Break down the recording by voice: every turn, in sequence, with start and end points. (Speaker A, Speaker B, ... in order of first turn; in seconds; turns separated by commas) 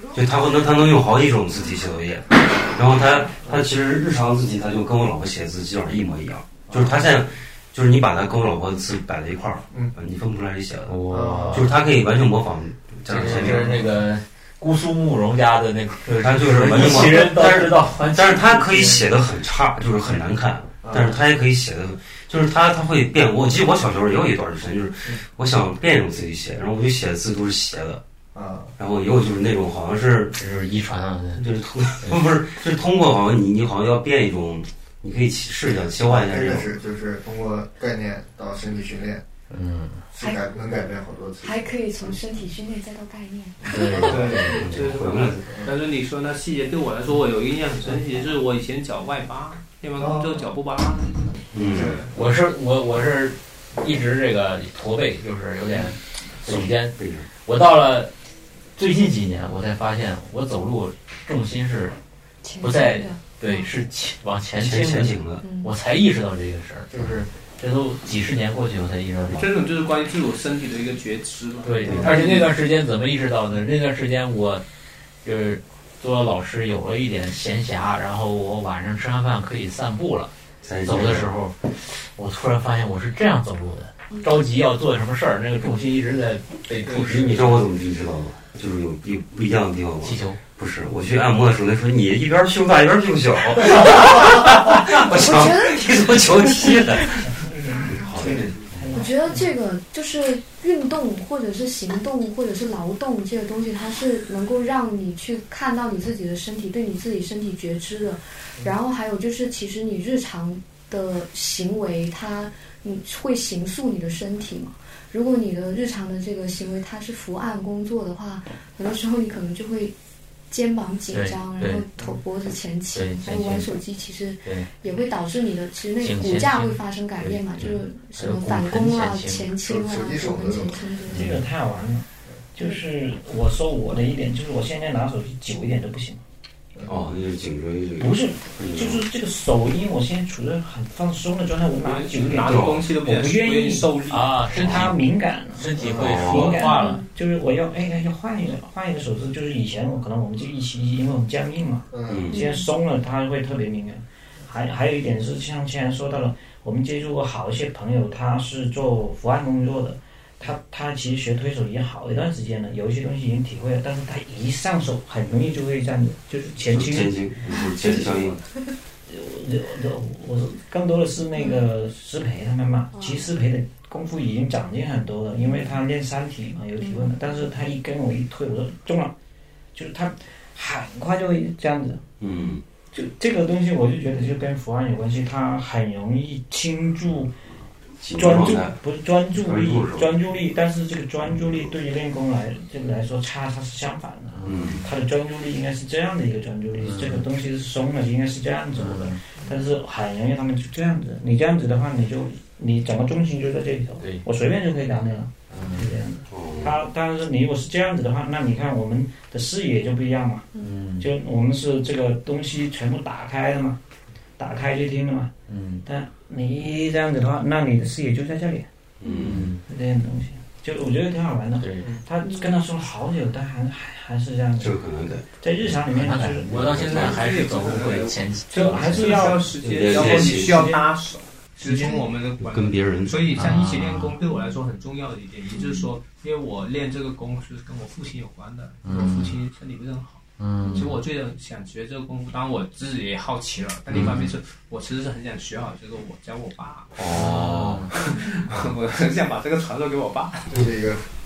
Speaker A: 0.1-13.9, Speaker B: 3.4-3.7, Speaker C: 10.9-11.7, Speaker B: 11.1-11.7, Speaker C: 13.1-19.0, Speaker B: 13.2-13.7, Speaker A: 16.1-28.0, Speaker B: 20.8-21.2, Speaker B: 28.3-28.7, Speaker A: 28.8-30.4, Speaker C: 30.4-31.5, Speaker A: 31.4-36.8, Speaker B: 36.0-39.2, Speaker C: 39.5-40.0, Speaker B: 40.1-41.7, Speaker D: 41.4-44.5, Speaker C: 43.7-44.7, Speaker B: 43.7-44.9, Speaker E: 44.1-51.3, Speaker A: 44.5-45.5, Speaker B: 50.0-50.5, Speaker A: 51.5-52.0, Speaker B: 51.6-52.1, Speaker C: 52.0-58.1, Speaker A: 56.4-57.3, Speaker C: 58.8-62.0, Speaker D: 62.4-63.7, Speaker C: 62.6-69.4, Speaker A: 64.5-65.4, Speaker D: 65.4-65.7, Speaker B: 66.9-67.2, Speaker E: 69.3-72.5, Speaker C: 71.6-74.6, Speaker A: 71.8-72.3, Speaker C: 75.2-80.3, Speaker A: 80.6-81.3, Speaker C: 80.8-87.6, Speaker E: 86.8-87.1, Speaker A: 87.0-98.8, Speaker C: 90.0-90.4, Speaker D: 95.0-96.0, Speaker F: 97.4-99.5, Speaker D: 98.9-119.9, Speaker D: 120.5-131.3, Speaker C: 121.1-121.8, Speaker C: 122.9-123.7, Speaker C: 124.4-124.7, Speaker C: 126.0-129.5, Speaker B: 129.6-130.9, Speaker C: 131.1-131.4, Speaker F: 131.1-136.2, Speaker A: 136.8-139.0, Speaker F: 138.0-143.9, Speaker E: 141.8-144.6, Speaker A: 142.4-142.8, Speaker C: 144.1-145.0, Speaker F: 144.5-167.2, Speaker C: 145.5-147.0, Speaker B: 145.8-146.1, Speaker A: 146.0-146.6, Speaker D: 146.7-147.0, Speaker B: 151.9-152.3, Speaker A: 152.1-152.4, Speaker D: 152.3-152.7, Speaker A: 166.7-168.4, Speaker D: 167.6-167.9, Speaker F: 169.1-179.1, Speaker D: 171.3-171.7, Speaker D: 172.9-173.3, Speaker D: 175.4-175.7, Speaker D: 176.8-177.1, Speaker F: 179.7-182.0, Speaker A: 182.2-182.6, Speaker F: 182.9-187.4, Speaker A: 188.0-188.8, Speaker F: 188.1-210.5, Speaker A: 189.3-190.2, Speaker C: 194.3-194.9, Speaker A: 194.4-194.8, Speaker C: 196.8-197.2, Speaker C: 198.8-199.2, Speaker C: 204.0-204.2, Speaker C: 205.5-205.9, Speaker A: 206.3-206.8, Speaker C: 210.6-211.1, Speaker F: 211.0-213.8, Speaker F: 214.4-215.3, Speaker C: 215.5-215.8, Speaker F: 215.8-218.7, Speaker A: 219.0-219.5, Speaker D: 219.0-219.3, Speaker C: 219.2-219.6, Speaker F: 219.7-224.8, Speaker C: 221.6-221.9, Speaker D: 222.2-222.6, Speaker A: 224.6-225.2, Speaker F: 225.4-226.8, Speaker C: 225.7-229.4, Speaker E: 226.7-247.3, Speaker F: 228.5-230.8, Speaker A: 229.6-230.5, Speaker F: 231.6-231.9, Speaker A: 232.4-233.3, Speaker C: 233.3-234.2, Speaker D: 235.5-235.8, Speaker C: 238.8-239.3, Speaker C: 240.4-240.9, Speaker D: 240.6-240.9, Speaker A: 243.9-244.2, Speaker C: 243.9-244.3, Speaker A: 247.0-247.9, Speaker C: 247.1-247.9, Speaker E: 247.9-250.7, Speaker B: 250.5-251.1